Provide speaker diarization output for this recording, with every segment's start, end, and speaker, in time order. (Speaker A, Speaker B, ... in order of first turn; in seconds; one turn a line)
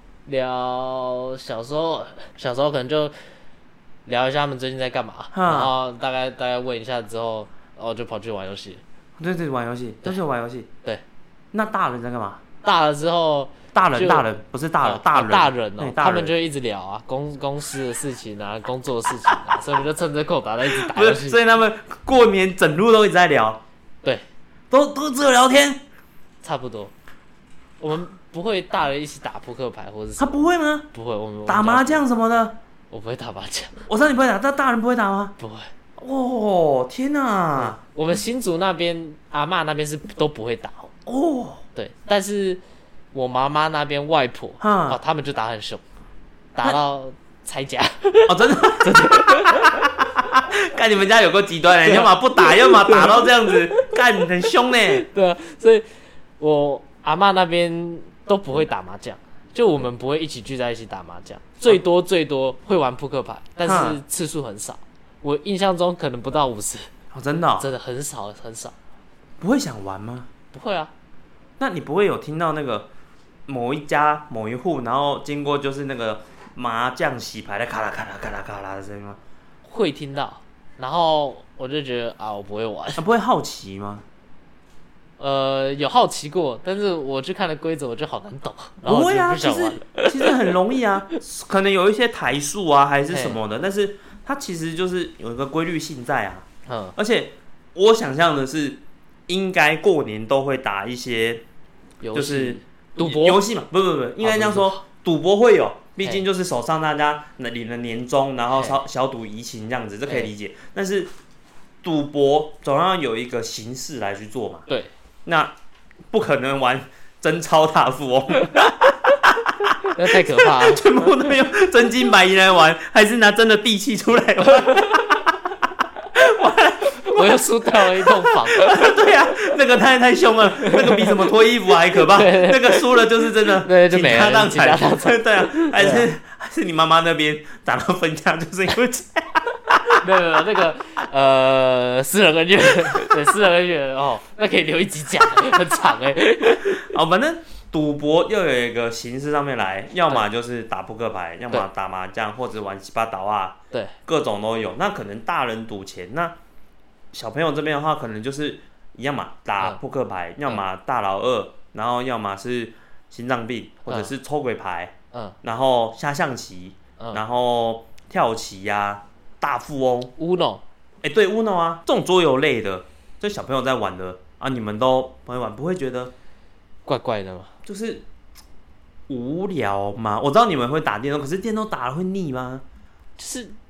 Speaker A: 0.2-3.1
Speaker A: 4.0-8.8
Speaker B: 5.3-5.7
Speaker B: 9.2-10.7
Speaker B: 11.5-12.4
Speaker A: 12.6-14.2
Speaker B: 13.7-16.3
Speaker A: 14.8-21.4
Speaker B: 20.7-23.6
Speaker B: 24.7-25.8
Speaker A: 26.4-26.9
Speaker A: 27.8-30.4
Speaker B: 30.2-30.9
Speaker A: 30.9-32.0
Speaker B: 31.4-32.6
Speaker A: 32.9-33.8
Speaker B: 33.9-35.4
Speaker A: 35.4-35.7
Speaker B: 36.0-37.8
Speaker A: 37.5-40.9
Speaker B: 41.0-41.6
Speaker A: 41.7-42.6
Speaker A: 43.1-45.8
Speaker B: 44.6-45.0
Speaker A: 46.5-49.8
Speaker B: 48.3-55.0
Speaker A: 51.8-54.0
Speaker A: 54.8-55.9
Speaker A: 56.4-66.9
Speaker B: 63.6-64.0
Speaker B: 67.1-67.7
Speaker A: 67.6-68.7
Speaker B: 69.4-70.3
Speaker A: 70.5-70.9
Speaker B: 71.6-72.9
Speaker B: 73.5-79.2
Speaker A: 79.6-83.0
Speaker B: 83.0-84.0
Speaker A: 85.2-90.5
Speaker B: 88.8-101.4
Speaker A: 93.1-93.4
Speaker A: 96.7-96.9
Speaker A: 102.0-103.4
Speaker B: 102.1-111.1
Speaker A: 104.2-104.8
Speaker A: 108.5-108.8
Speaker B: 111.8-114.7
Speaker B: 115.2-115.5
Speaker B: 116.1-140.0
Speaker A: 119.9-120.8
Speaker A: 124.6-124.9
Speaker A: 126.9-128.8
Speaker A: 130.6-131.2
Speaker A: 132.0-136.1
Speaker A: 139.9-146.8
Speaker B: 146.6-156.3
Speaker A: 153.7-154.0
Speaker B: 157.1-170.1
Speaker A: 170.2-170.6
Speaker B: 171.0-176.1
Speaker A: 176.8-177.5
Speaker B: 177.7-178.0
Speaker B: 179.1-182.6
Speaker A: 183.2-183.6